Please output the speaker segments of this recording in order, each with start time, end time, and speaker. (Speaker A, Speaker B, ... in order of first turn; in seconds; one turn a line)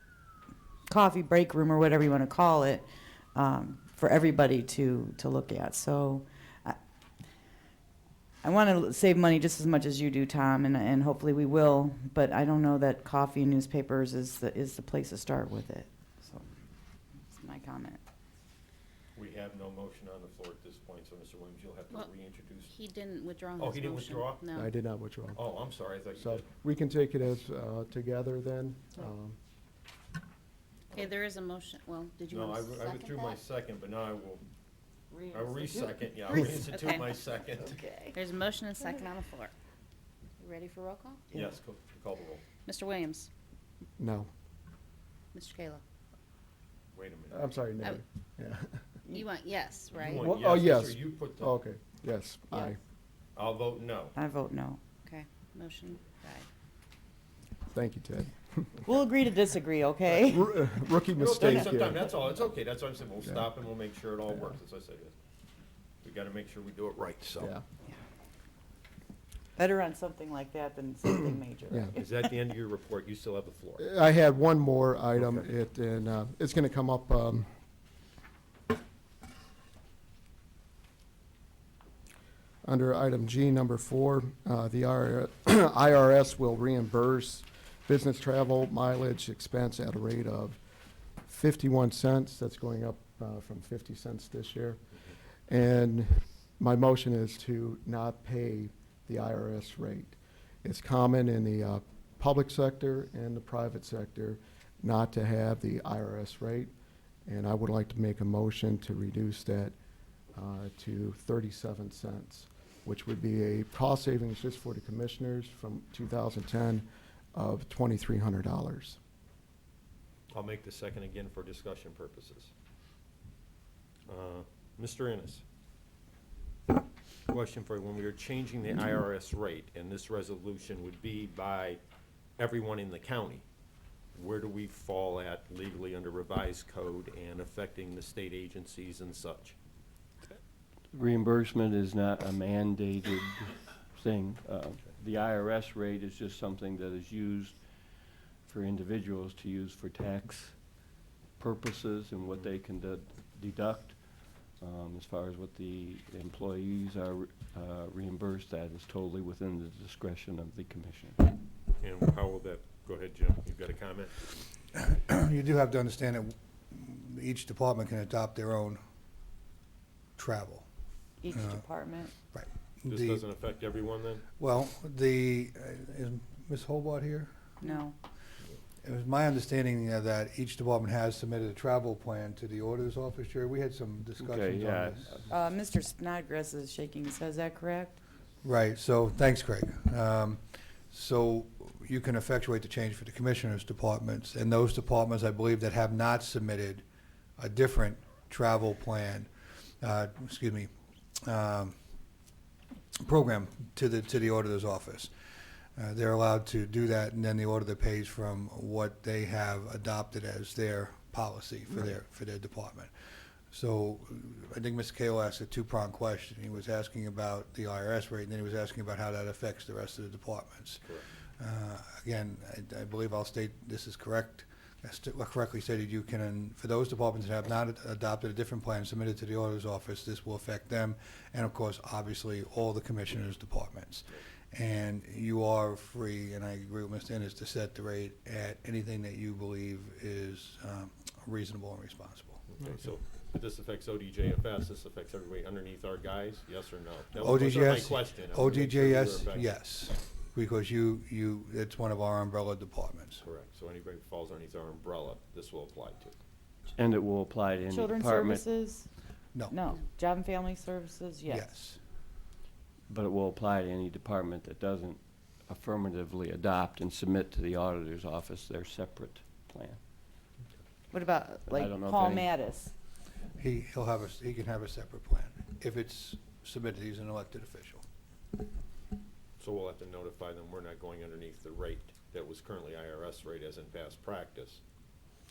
Speaker A: 0.9-6.8
Speaker A: 8.4-16.4
Speaker A: 17.3-18.0
Speaker B: 19.1-22.8
Speaker C: 22.7-24.7
Speaker B: 23.6-24.5
Speaker D: 24.5-25.5
Speaker B: 25.3-26.4
Speaker D: 26.1-29.4
Speaker C: 30.9-33.4
Speaker B: 32.3-34.4
Speaker B: 35.3-37.8
Speaker C: 36.3-37.1
Speaker C: 37.6-39.5
Speaker C: 40.4-41.5
Speaker B: 41.3-42.5
Speaker C: 42.6-43.3
Speaker D: 44.0-44.3
Speaker C: 45.3-45.8
Speaker B: 46.9-47.5
Speaker D: 47.3-48.8
Speaker C: 49.1-50.3
Speaker B: 49.9-51.5
Speaker D: 50.2-52.8
Speaker B: 53.3-54.1
Speaker A: 54.1-54.8
Speaker C: 55.0-56.5
Speaker D: 57.7-58.9
Speaker A: 58.9-60.6
Speaker D: 60.0-62.1
Speaker B: 61.2-65.1
Speaker A: 61.4-62.1
Speaker D: 63.2-63.5
Speaker B: 66.0-67.5
Speaker D: 67.4-67.6
Speaker A: 69.6-72.0
Speaker D: 71.7-71.9
Speaker B: 71.9-73.8
Speaker D: 73.8-77.5
Speaker B: 75.1-75.5
Speaker D: 82.6-90.6
Speaker D: 91.2-94.8
Speaker D: 95.5-106.7
Speaker D: 107.2-109.7
Speaker D: 110.3-119.0
Speaker B: 120.3-122.5
Speaker B: 124.1-125.4
Speaker B: 127.3-131.8
Speaker B: 132.4-133.4
Speaker B: 134.1-139.5
Speaker E: 140.9-147.7
Speaker E: 148.4-150.6
Speaker E: 151.4-161.2
Speaker B: 161.8-164.2
Speaker F: 164.7-168.8
Speaker F: 170.2-170.7
Speaker A: 171.2-172.1
Speaker F: 171.3-171.6
Speaker F: 172.3-173.2
Speaker B: 172.8-174.2
Speaker F: 174.4-177.3
Speaker A: 177.6-177.9
Speaker F: 178.8-185.2
Speaker E: 184.2-185.3
Speaker A: 185.3-188.0
Speaker F: 188.4-196.8
Speaker F: 197.4-199.3
Speaker F: 199.8-200.7
Speaker F: 201.2-201.7
Speaker F: 203.0-205.1
Speaker F: 205.8-212.9
Speaker F: 213.5-242.6
Speaker B: 242.5-249.5
Speaker F: 247.2-253.2
Speaker B: 253.2-256.2
Speaker E: 256.8-258.4
Speaker A: 257.7-258.9
Speaker A: 259.5-261.5
Speaker F: 261.3-261.8
Speaker E: 262.9-269.8
Speaker A: 270.9-272.7
Speaker E: 271.5-272.3
Speaker F: 273.4-277.8
Speaker B: 279.4-284.6